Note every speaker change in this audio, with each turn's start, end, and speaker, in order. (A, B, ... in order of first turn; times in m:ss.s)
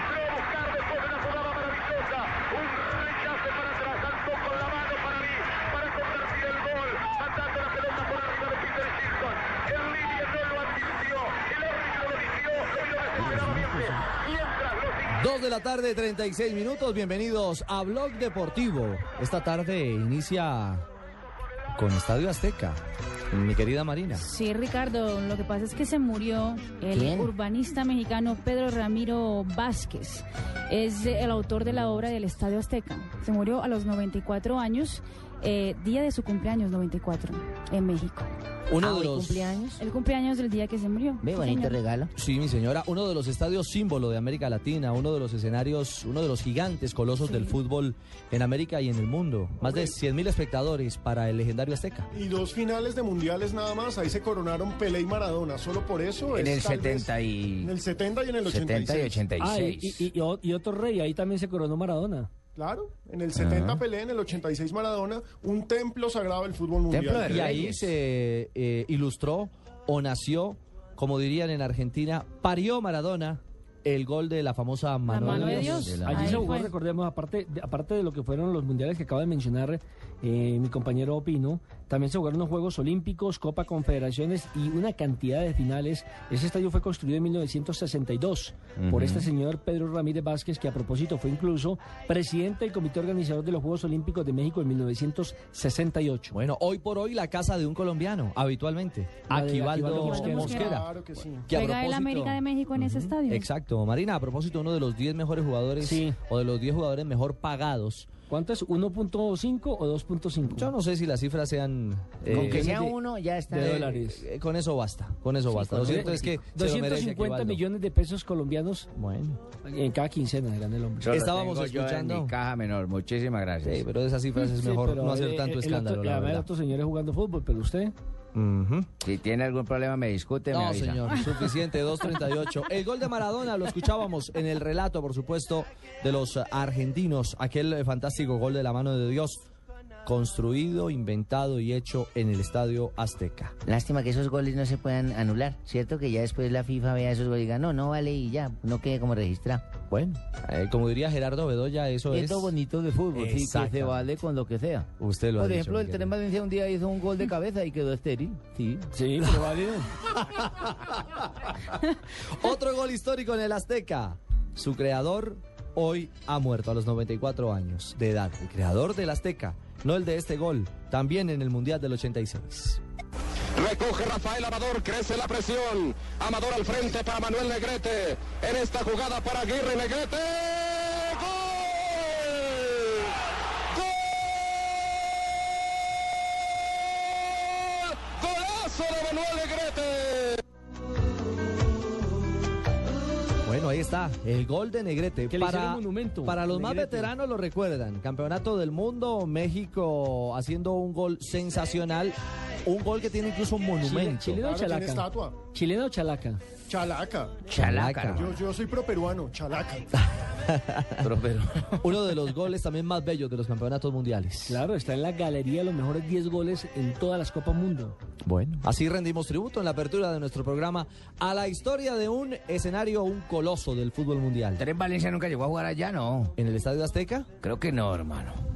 0:13.3-0:14.0 A
0:15.1-0:20.8 B
0:21.7-0:24.2 B
0:24.2-0:38.3 C
0:26.9-0:27.3 A
0:38.7-0:39.4 B
0:38.8-0:39.8 A
0:39.8-0:41.8 C
0:41.2-0:42.1 A
0:42.2-0:52.1 B
0:47.2-0:47.5 C
0:49.6-0:49.9 D
0:52.1-0:59.2 D
0:56.3-0:57.7 E
0:58.4-1:00.1 E
0:59.4-1:02.3 F
1:02.6-1:07.6 D
1:03.4-1:03.8 E
1:06.9-1:07.9 E
1:07.2-1:16.0 B
1:15.0-1:16.7 C
1:15.2-1:36.3 F
1:15.8-1:16.4 E
1:28.8-1:29.3 E
1:36.3-1:40.9 B
1:39.3-1:40.7 F
1:39.9-1:40.8 C
1:40.6-1:41.6 D
1:41.5-1:48.1 B
1:41.5-1:43.5 C
1:45.8-1:46.2 F
1:48.3-1:50.7 F
1:50.4-1:52.9 B
1:52.3-1:52.9 F
1:52.3-1:53.8 A
1:53.5-1:54.2 F
1:53.5-1:57.6 B
1:55.5-1:58.9 F
1:59.0-1:59.4 B
1:59.6-2:01.2 F
2:01.0-2:03.8 E
2:01.1-2:02.3 B
2:03.6-2:06.5 B
2:04.5-2:07.9 F
2:08.3-2:08.9 B
2:09.0-2:11.1 E
2:10.5-2:19.4 B
2:20.0-2:23.5 B
2:23.6-2:29.7 A
2:29.9-2:32.5 B
2:32.1-2:34.9 A
2:33.1-2:34.0 B
2:35.0-2:36.1 B
2:35.4-2:38.8 A
2:38.9-2:39.9 F
2:40.1-2:52.8 B
2:53.6-3:01.4 G
3:07.6-3:10.4 G
3:13.4-3:24.4 B
3:15.3-3:17.1 F
3:23.8-3:26.4 F
3:24.4-3:25.4 D
3:26.7-3:27.4 D
3:27.5-3:28.4 E
3:27.5-3:28.3 B
3:28.2-3:29.8 D
3:30.5-3:31.1 B
3:31.0-3:31.8 E
3:31.8-3:34.6 B
3:34.4-3:38.0 F
3:38.2-3:44.6 B
3:44.6-3:46.3 E
3:46.4-3:47.3 B
3:47.4-3:48.4 E